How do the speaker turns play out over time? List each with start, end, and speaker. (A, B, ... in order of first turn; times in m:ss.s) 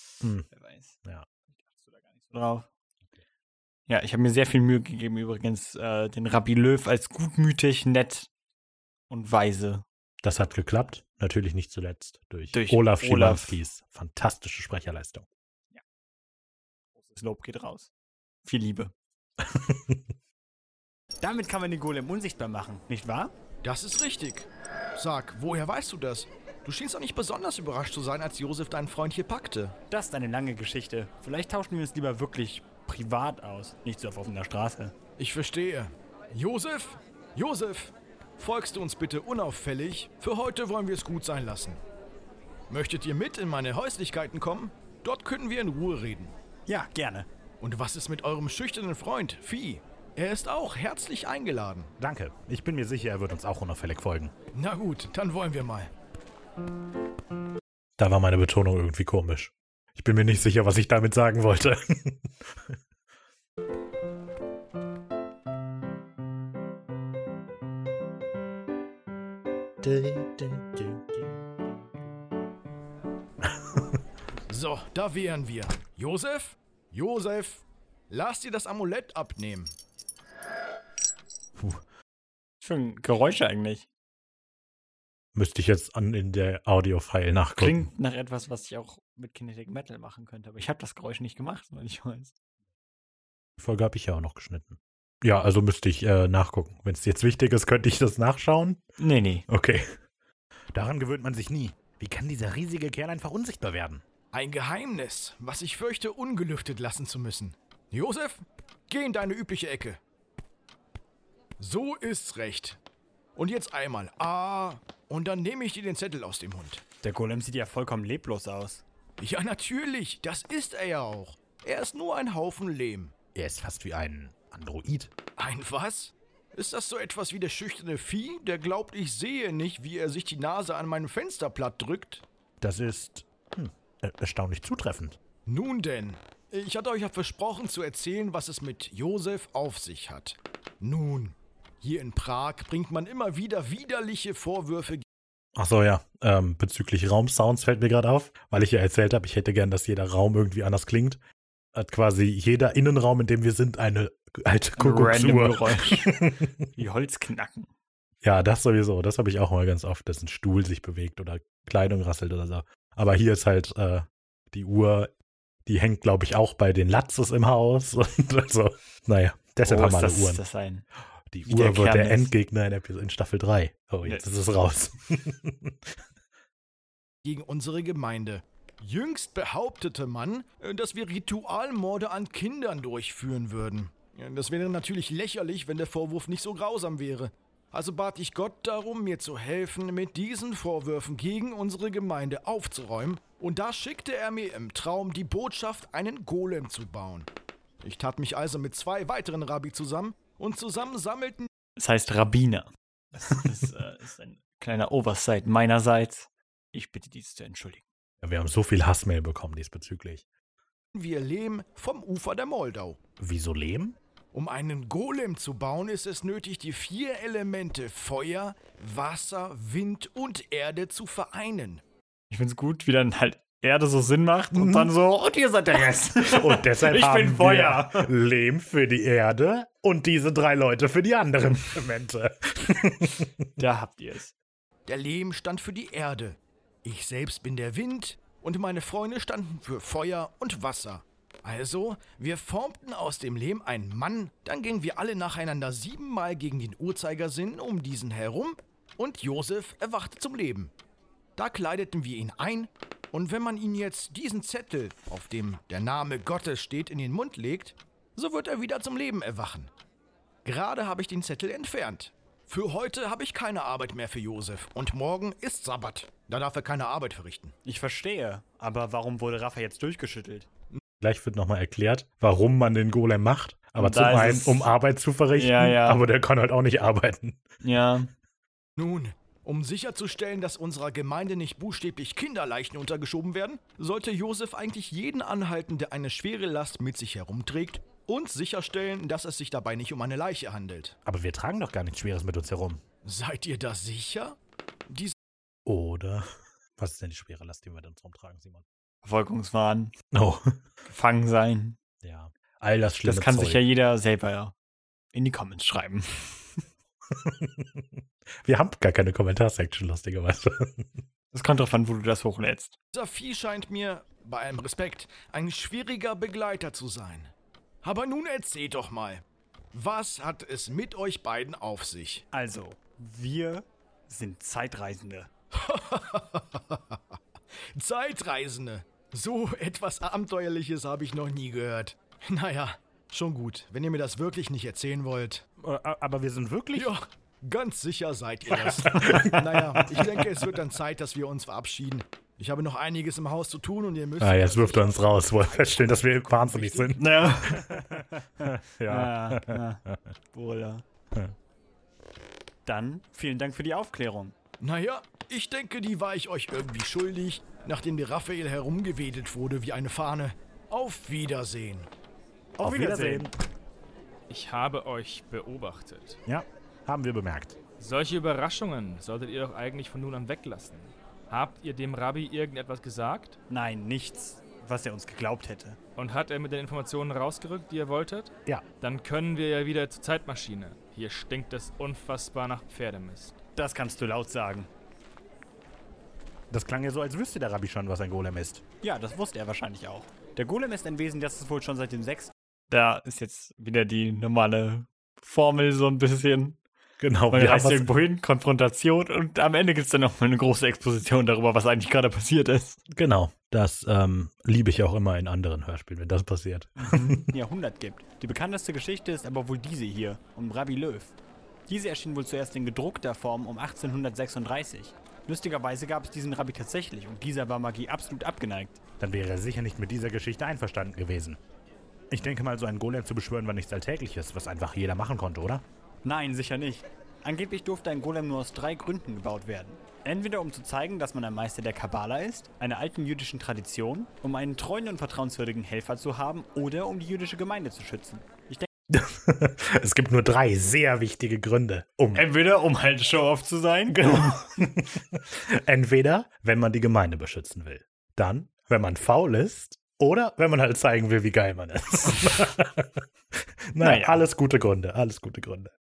0:00.2-0:00.5 A
0:00.5-0:01.0 B
0:01.5-0:02.7 B
0:03.9-0:08.3 B
0:09.1-0:09.8 B
0:10.2-0:15.3 A
0:12.5-0:13.6 B
0:17.0-0:17.9 B
0:18.4-0:18.9 B
0:19.4-0:20.0 A
0:21.2-0:23.3 B
0:23.6-0:29.7 C
0:29.9-0:34.9 B
0:35.2-0:41.8 C
0:42.7-0:46.3 C
0:46.7-0:47.3 B
0:47.6-0:51.9 C
0:52.0-0:54.3 A
0:54.5-0:55.9 C
0:58.0-1:02.8 A
1:09.8-1:11.4 A
1:13.4-1:14.0 A
1:14.5-1:19.7 C
1:21.6-1:21.8 A
1:22.6-1:23.9 B
1:25.3-1:27.9 A
1:27.6-1:32.3 B
1:33.6-1:38.8 A
1:39.0-1:39.4 B
1:39.5-1:40.0 A
1:40.7-1:44.0 A
1:44.3-1:50.0 C
1:51.6-1:52.8 C
1:53.4-1:56.8 C
1:57.0-1:58.8 B
1:59.2-2:03.1 C
2:03.3-2:05.1 A
2:05.4-2:12.2 C
2:12.6-2:15.2 A
2:15.4-2:25.0 C
2:25.5-2:31.2 A
2:31.7-2:36.6 A
2:34.8-2:37.7 B
2:38.2-2:45.1 A
2:45.6-2:50.4 A
2:49.6-2:50.8 B
2:51.3-2:55.9 A
2:51.4-2:52.3 B
2:57.2-3:17.3 C
3:17.8-3:21.5 C
3:21.8-3:27.8 B
3:28.2-3:30.2 A
3:30.9-3:33.0 C
3:33.2-3:34.0 A
3:34.3-3:41.8 C
3:42.3-3:48.1 B
3:44.5-3:44.9 A
3:46.2-3:53.3 A
3:53.6-3:54.3 B
3:54.8-4:10.7 C
4:11.4-4:19.7 C
4:20.4-4:27.6 C
4:27.6-4:30.5 B
4:31.0-4:37.4 A
4:33.8-4:34.7 B
4:35.3-4:36.0 B
4:37.6-4:38.1 B
4:38.8-4:51.0 C
4:51.0-4:52.8 A
4:53.0-4:54.4 C
4:54.9-4:55.1 C
4:55.6-4:58.6 A
4:59.0-4:59.9 B
5:00.1-5:00.6 A
5:00.9-5:01.8 B
5:02.0-5:03.7 A
5:03.0-5:04.5 B
5:05.1-5:06.6 B
5:07.1-5:11.0 A
5:11.3-5:12.8 B
5:12.9-5:17.3 C
5:17.8-5:22.2 C
5:22.3-5:25.3 B
5:25.5-5:27.0 C
5:27.7-5:35.4 C
5:35.6-5:36.9 A
5:36.7-5:47.0 C
5:38.9-5:39.4 A
5:38.9-5:39.8 B
5:44.2-5:50.0 A
5:47.0-5:50.8 B
5:52.6-5:54.3 B
5:54.6-6:01.9 C
6:02.6-6:03.3 A
6:02.6-6:03.3 B
6:04.3-6:06.2 D
6:06.3-6:07.6 A
6:07.8-6:13.4 D
6:13.5-6:15.8 B
6:16.0-6:23.4 D
6:23.6-6:24.7 B
6:26.5-6:28.6 A
6:28.8-6:36.6 B
6:37.0-6:37.9 A
6:37.3-6:42.8 B
6:42.9-6:47.2 A
6:46.8-6:51.1 B
6:51.7-6:58.8 B
6:59.0-7:01.4 A
7:02.1-7:05.6 A
7:06.0-7:18.7 B
7:18.9-7:22.2 A
7:22.1-7:24.4 B
7:23.9-7:35.7 A
7:33.8-7:34.2 B